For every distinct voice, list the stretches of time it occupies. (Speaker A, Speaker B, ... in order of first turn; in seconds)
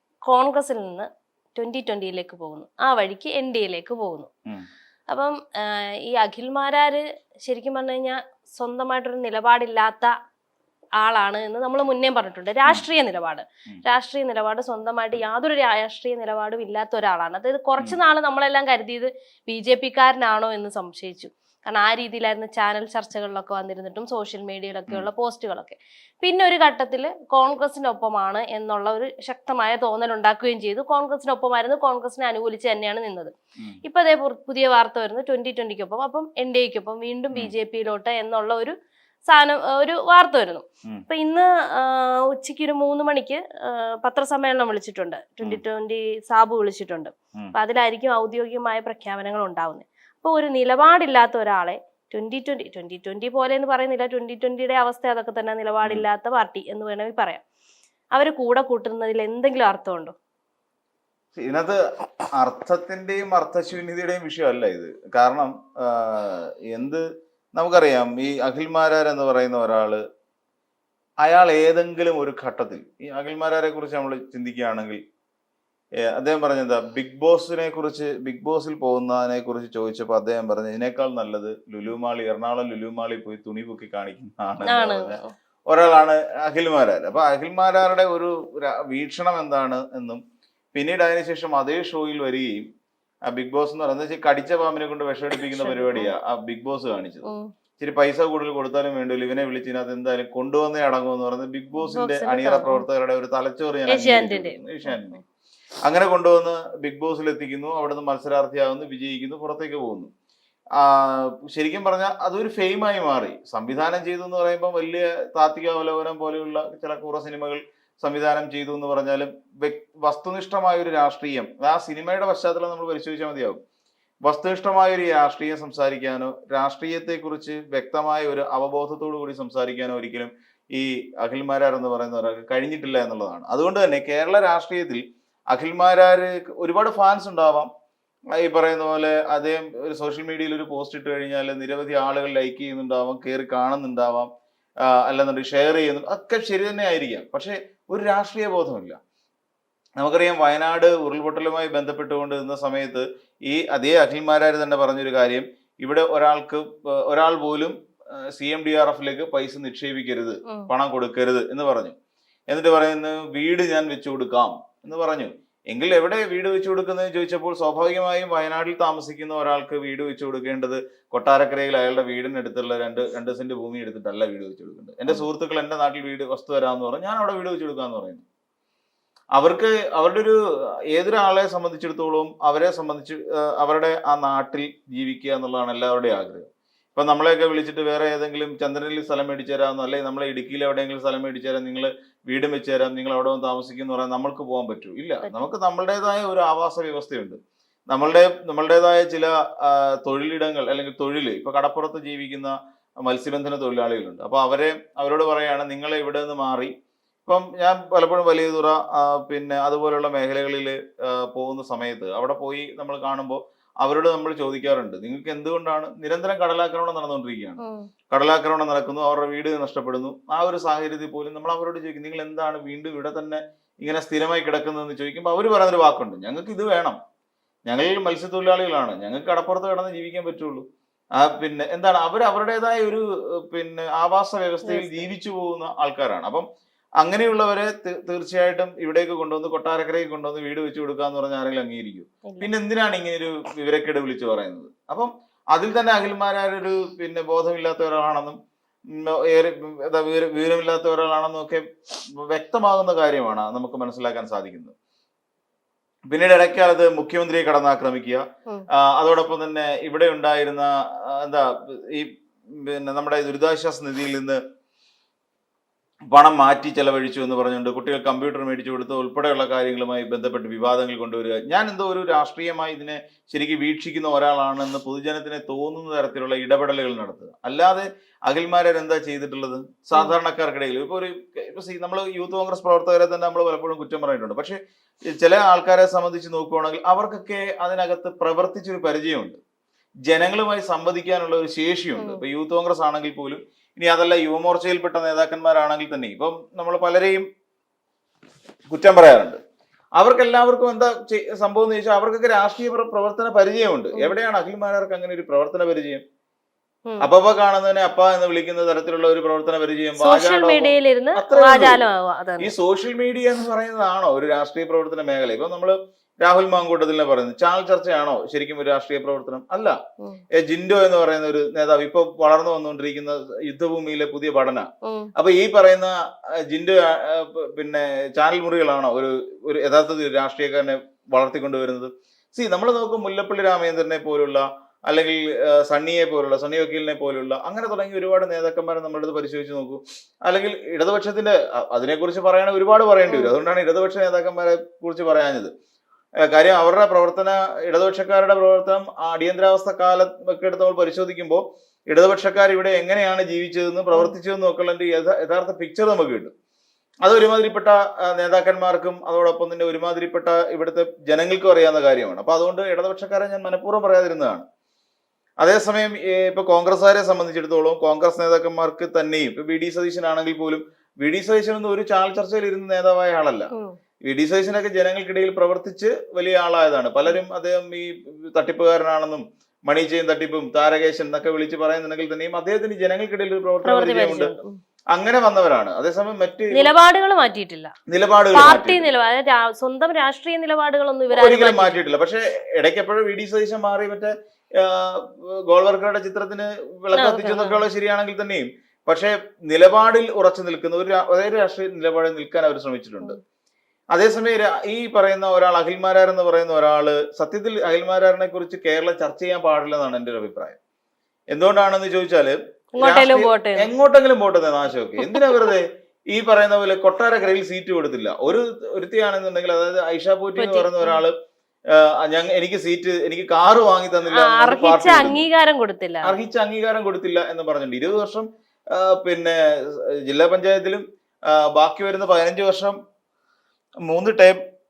Speaker A: 0.3-4.3, 5.1-10.1, 11.0-33.3, 33.8-38.7, 39.3-57.4, 58.1-60.1, 84.7-85.3, 95.5-96.1, 101.8-102.8, 103.9-105.0, 217.6-217.8, 234.6-235.1, 242.2-242.5, 292.0-292.2, 310.0-312.5, 324.8-325.1, 343.1-343.3, 383.6-384.6, 386.5-387.7, 388.3-391.8, 396.9-397.6, 412.8-413.7, 415.0-415.5, 420.4-421.0, 424.1-426.1
Speaker B: 61.4-61.8, 62.4-67.0, 67.5-70.0, 71.2-75.0, 76.1-85.2, 85.7-90.2, 90.7-92.6, 93.3-97.2, 97.8-105.2, 105.8-110.1, 110.8-123.6, 124.2-137.7, 138.4-144.3, 144.8-149.0, 150.0-157.7, 158.3-161.9, 162.5-178.2, 179.3-180.3, 180.9-197.4, 197.9-206.7, 207.2-217.6, 218.1-227.0, 227.7-230.6, 231.2-236.4, 237.0-248.4, 248.9-251.6, 252.2-254.7, 256.1-258.2, 258.8-264.4, 266.1-284.6, 285.2-289.4, 290.1-297.2, 298.7-299.4, 300.0-306.0, 307.0-311.8, 312.4-319.7, 320.4-325.9, 326.5-345.5, 346.3-356.3, 357.0-364.4, 365.4-373.5, 374.1-384.3, 384.9-386.7, 387.9-388.9, 391.1-403.2, 403.9-410.6, 411.3-421.1, 421.7-425.2, 426.0-432.8, 433.9-434.4